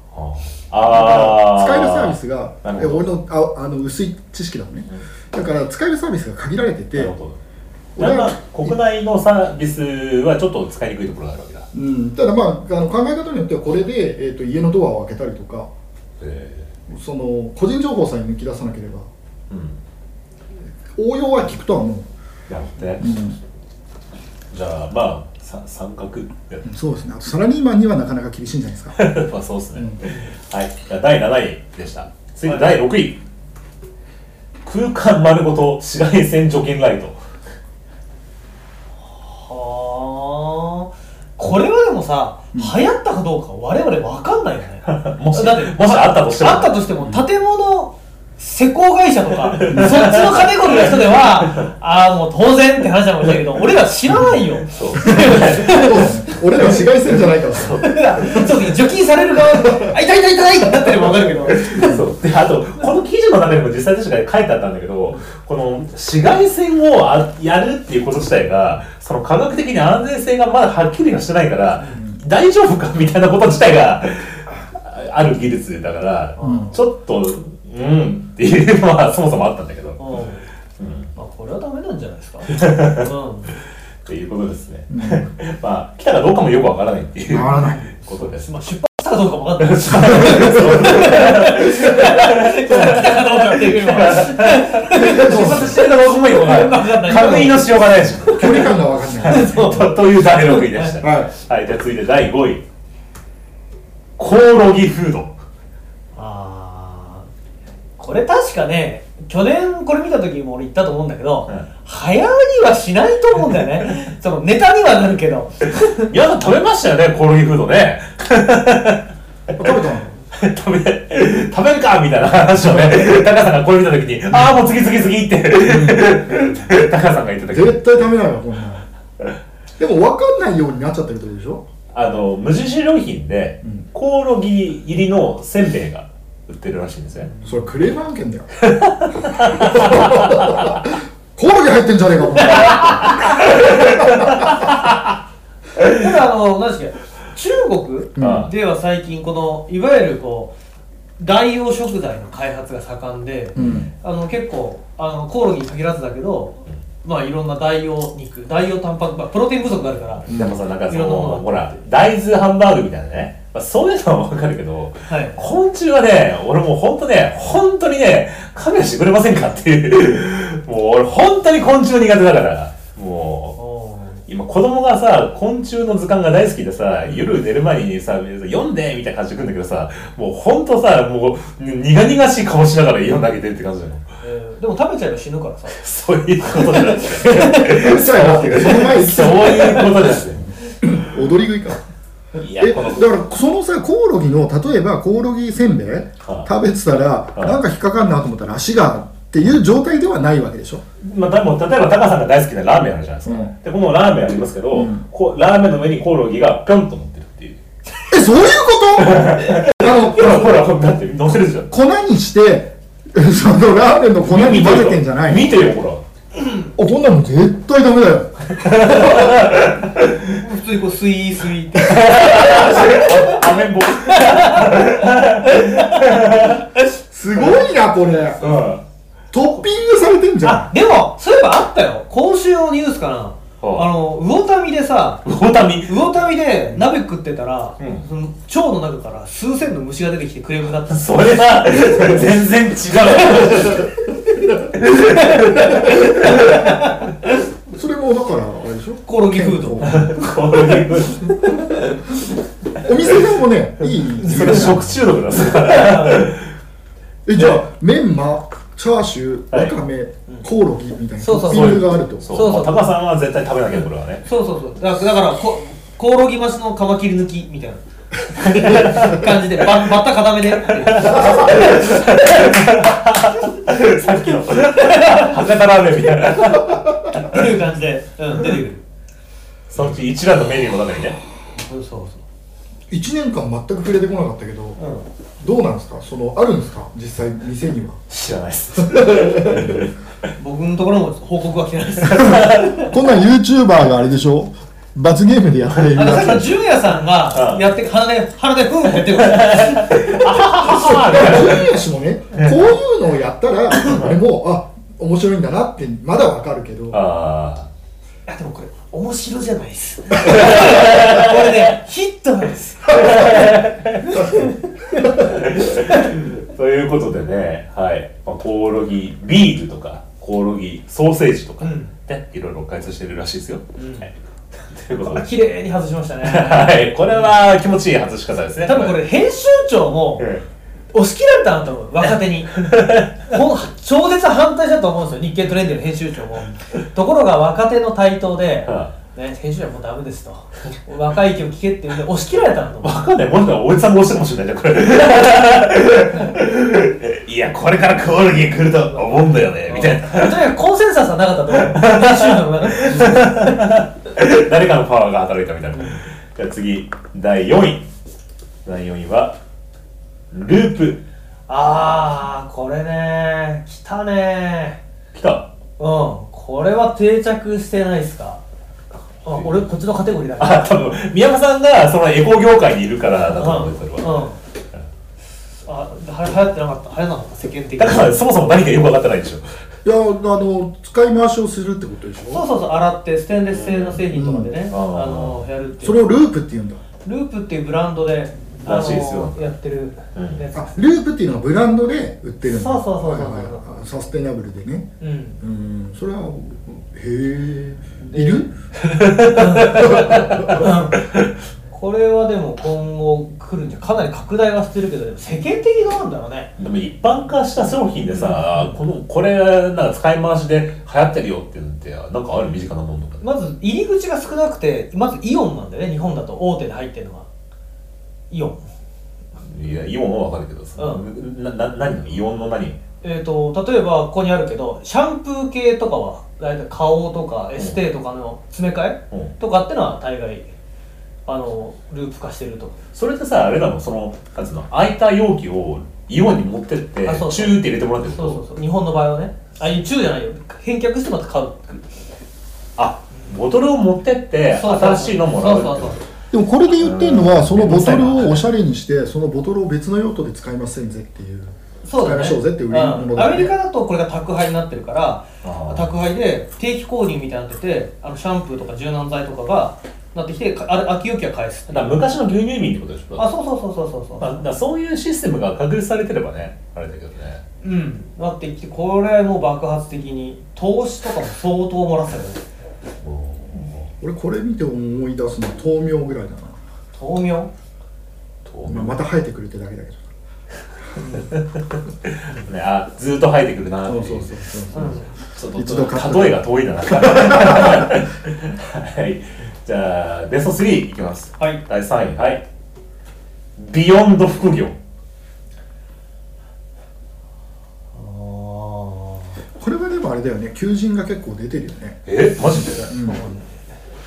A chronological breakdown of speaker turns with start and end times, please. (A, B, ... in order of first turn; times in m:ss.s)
0:00.1-0:03.1 A
0:00.9-0:07.2 B
0:07.0-0:07.4 A
0:08.0-0:08.8 B
0:08.0-0:11.7 A
0:11.7-0:15.7 B
0:16.2-0:16.7 A
0:16.9-0:19.1 B
0:19.5-0:19.8 A
0:20.9-0:22.1 B
0:22.5-0:23.1 A
0:23.0-0:23.4 B
0:24.5-0:26.7 A
0:26.6-0:29.0 B
0:29.0-0:33.2 A
0:32.4-0:32.7 C
0:34.6-0:37.2 A
0:39.1-0:56.1 C
0:44.9-0:46.8 A
0:49.5-0:51.7 A
0:54.6-0:58.5 A
0:55.1-0:58.4 B
0:57.8-1:02.0 C
0:59.7-0:59.9 B
1:01.5-1:20.2 A
1:11.8-1:12.0 C
1:16.4-1:16.8 C
1:16.4-1:16.7 B
1:20.0-1:20.5 C
1:20.8-1:21.1 A
1:21.2-1:23.5 C
1:22.5-1:23.1 A
1:24.0-1:28.5 A
1:24.9-1:25.3 B
1:27.3-1:27.9 B
1:28.1-1:38.7 C
1:29.6-1:42.6 A
1:30.2-1:31.1 B
1:35.0-1:35.8 B
1:38.3-1:39.8 B
1:39.2-1:41.0 C
1:41.0-1:41.3 B
1:44.2-1:45.4 A
1:46.2-1:47.3 C
1:48.0-1:56.1 C
1:55.9-2:08.1 A
1:59.6-2:00.2 B
2:02.6-2:03.1 B
2:05.6-2:06.1 B
2:07.5-2:08.9 B
2:09.8-2:11.7 B
2:11.9-2:17.3 A
2:17.2-2:17.7 C
2:17.4-2:18.6 B
2:18.6-2:20.8 A
2:19.2-2:24.5 B
2:22.5-2:24.9 A
2:22.6-2:23.4 C
2:25.8-2:30.6 C
2:28.2-2:28.5 B
2:28.2-2:28.5 A
2:31.2-2:40.3 C
2:33.6-2:33.9 B
2:33.6-2:33.9 A
2:40.3-2:53.6 A
2:40.3-2:40.6 B
2:40.9-2:41.6 C
2:45.1-2:45.4 C
2:53.6-2:54.2 C
2:54.3-3:04.1 A
3:04.2-3:05.8 C
3:05.7-3:10.6 A
3:06.4-3:07.8 C
3:07.7-3:10.0 B
3:09.4-3:09.9 C
3:10.8-3:11.8 B
3:12.4-3:13.2 A
3:12.6-3:20.8 B
3:16.2-3:16.5 A
3:21.0-3:27.6 A
3:23.3-3:23.5 B
3:24.7-3:25.0 B
3:28.1-3:30.6 B
3:29.0-3:31.7 A
3:31.7-3:35.6 B
3:34.2-3:36.0 A
3:36.8-3:39.5 B
3:38.6-3:40.4 A
3:39.0-3:39.3 C
3:40.2-3:46.9 C
3:41.8-3:46.7 A
3:47.1-3:48.6 B
3:48.4-3:48.8 A
3:49.3-3:50.7 B
3:50.4-3:55.3 C
3:53.6-3:53.9 A
3:55.2-3:56.1 A
3:55.9-4:02.3 C
3:57.8-3:58.1 A
4:00.9-4:03.9 A
4:03.0-4:03.9 C
4:04.7-4:06.6 A
4:05.1-4:07.3 C
4:07.7-4:10.3 B
4:09.1-4:10.1 C
4:09.8-4:11.5 A
4:10.6-4:12.0 C
4:12.8-4:15.0 B
4:13.9-4:16.5 A
4:15.4-4:16.3 C
4:17.3-4:22.3 B
4:19.5-4:19.8 A
4:21.2-4:22.9 C
4:21.4-4:24.3 A
4:24.2-4:32.4 C
4:28.4-4:29.7 A
4:30.6-4:37.4 A
4:33.2-4:35.4 C
4:36.4-4:38.8 C
4:39.7-4:41.2 A
4:41.6-4:42.2 C
4:42.9-4:44.8 B
4:44.8-4:45.1 C
4:45.4-4:48.0 B
4:48.1-4:49.9 A
4:48.8-4:49.9 B
4:50.4-4:52.9 C
4:52.1-4:52.9 A
4:52.4-4:56.5 B
4:55.8-4:56.3 A
4:55.9-5:00.4 C
4:57.3-4:57.6 A
4:59.0-5:01.7 A
5:00.5-5:07.0 B
5:02.3-5:02.6 A
5:03.8-5:04.2 A
5:06.9-5:07.7 A
5:08.3-5:13.5 C
5:10.2-5:11.7 A
5:12.9-5:14.4 A
5:14.0-5:15.2 C
5:15.0-5:25.3 A
5:21.6-5:21.9 C
5:23.8-5:24.1 C
5:25.0-5:27.3 C
5:26.2-5:29.0 A
5:28.6-5:30.3 C
5:30.2-5:30.4 A
5:30.9-5:43.0 C
5:32.6-5:33.2 A
5:38.7-5:38.9 A
5:42.8-5:50.5 A
5:49.7-5:53.6 C
5:51.6-5:57.9 A
5:55.7-5:56.0 C
5:58.6-5:59.4 A
6:00.3-6:01.0 A
6:01.5-6:04.8 C
6:05.1-6:05.5 A
6:05.8-6:08.4 C
6:09.2-6:10.7 C
6:09.3-6:09.7 A
6:10.4-6:14.9 A
6:13.3-6:14.4 C
6:15.6-6:18.5 C
6:17.8-6:19.6 A
6:19.8-6:22.4 B
6:22.3-6:26.2 C
6:23.5-6:24.0 A
6:24.1-6:24.5 B
6:24.7-6:25.4 A
6:25.8-6:26.8 B
6:27.0-6:30.8 C
6:28.6-6:29.4 A
6:30.2-6:30.4 A
6:30.5-6:38.5 B
6:32.4-6:33.7 C
6:35.0-6:35.4 C
6:38.0-6:38.5 C
6:38.8-6:41.3 A
6:39.2-6:41.0 C
6:39.7-6:40.7 B
6:41.7-6:46.5 C
6:46.6-6:53.3 A
6:48.1-6:48.8 C
6:53.2-6:57.3 C
6:58.3-6:58.6 C
6:59.4-7:02.8 A
7:00.8-7:01.1 C
7:03.0-7:10.5 C
7:07.6-7:07.8 A
7:11.3-7:12.8 C
7:12.9-7:18.4 A
7:17.0-7:21.9 C
7:22.8-7:26.0 A
7:24.6-7:26.0 C
7:26.3-7:33.5 B
7:26.8-7:28.5 A
7:31.8-7:42.0 C
7:35.4-7:35.9 A
7:41.7-7:43.3 A
7:43.2-7:44.4 C
7:44.2-7:47.4 A
7:47.6-7:52.4 C
7:53.0-7:53.9 A
7:54.0-7:56.6 B
7:56.9-7:57.5 C
7:58.4-7:59.0 A
7:58.6-8:00.1 B
8:01.0-8:01.3 C
8:01.2-8:12.4 A
8:03.9-8:05.0 B
8:04.7-8:05.1 C
8:05.6-8:06.4 B
8:07.1-8:07.9 B
8:13.6-8:14.8 A
8:17.9-8:19.4 C
8:19.6-8:22.0 B
8:22.1-8:22.9 A
8:22.9-8:23.2 B
8:22.9-8:23.7 C